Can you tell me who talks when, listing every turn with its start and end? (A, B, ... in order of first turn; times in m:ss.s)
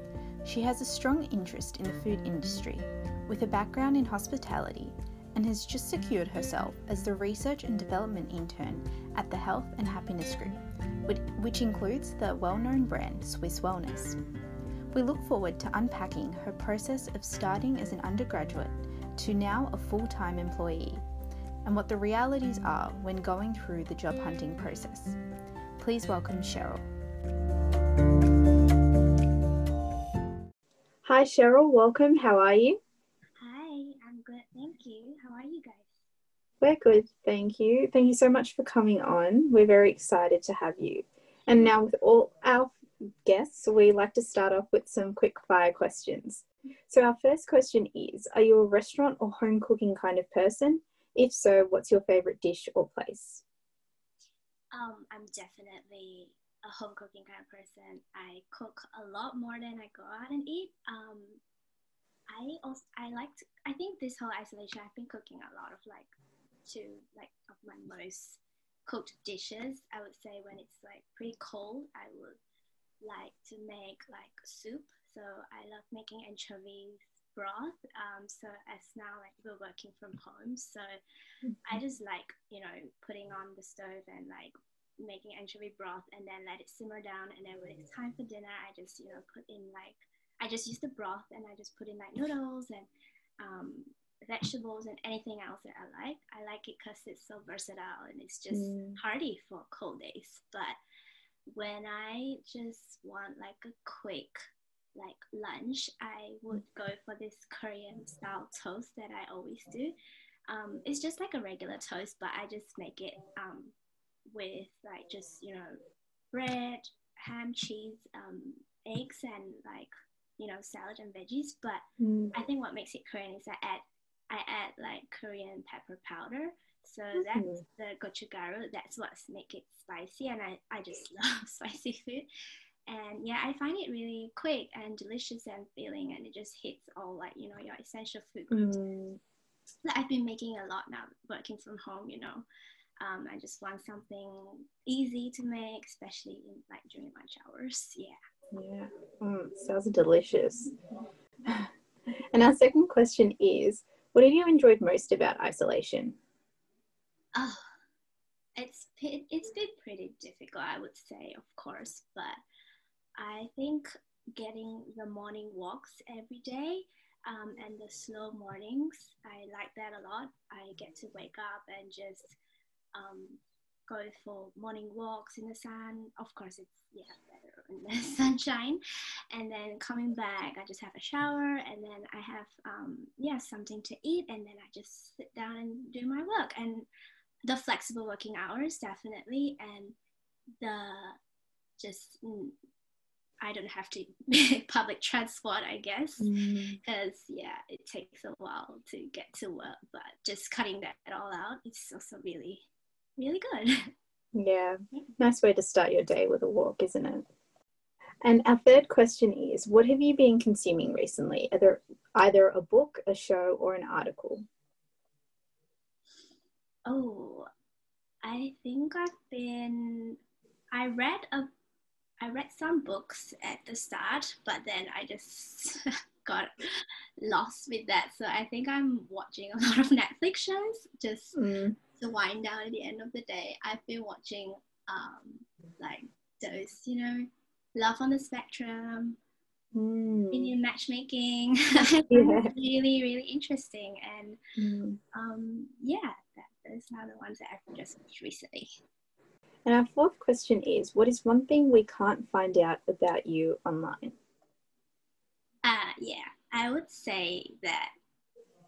0:00.4-0:14.2 A
0:14.9-0:21.0 A
0:21.6-0:25.2 A
0:25.8-0:26.8 A
0:31.0-0:32.8 A
0:33.4-0:35.9 B
0:36.6-0:53.4 A
0:54.7-1:01.4 B
1:02.3-1:06.1 B
1:06.7-1:12.4 B
1:13.0-1:20.9 B
1:21.6-1:32.9 B
1:33.4-1:40.8 B
1:38.5-1:39.0 A
1:41.5-1:44.4 B
1:44.9-1:49.9 B
1:50.5-1:53.7 B
1:54.3-1:55.8 B
1:56.3-2:12.3 B
2:02.0-2:02.3 A
2:07.3-2:07.6 A
2:12.9-2:18.8 B
2:18.5-2:19.2 A
2:19.8-2:22.4 B
2:23.0-2:28.2 B
2:28.5-2:30.7 A
2:31.4-2:36.2 A
2:37.3-2:37.6 B
2:38.6-2:42.4 B
2:43.2-2:52.4 B
2:52.9-2:58.8 B
2:59.3-3:06.9 B
3:07.5-3:09.9 B
3:10.6-3:11.2 B
3:11.8-3:12.6 B
3:13.4-3:22.7 B
3:16.2-3:16.8 A
3:23.2-3:23.9 B
3:24.3-3:27.2 A
3:28.2-3:34.4 A
3:36.8-3:37.5 B
3:38.2-3:40.2 B
3:40.7-3:41.5 B
3:42.2-3:59.2 B
3:51.3-3:51.8 A
3:59.7-4:00.5 A
4:00.3-4:04.4 B
4:02.1-4:02.5 A
4:04.6-4:05.0 A
4:05.1-4:08.7 B
4:09.6-4:14.2 A
4:15.6-4:17.9 B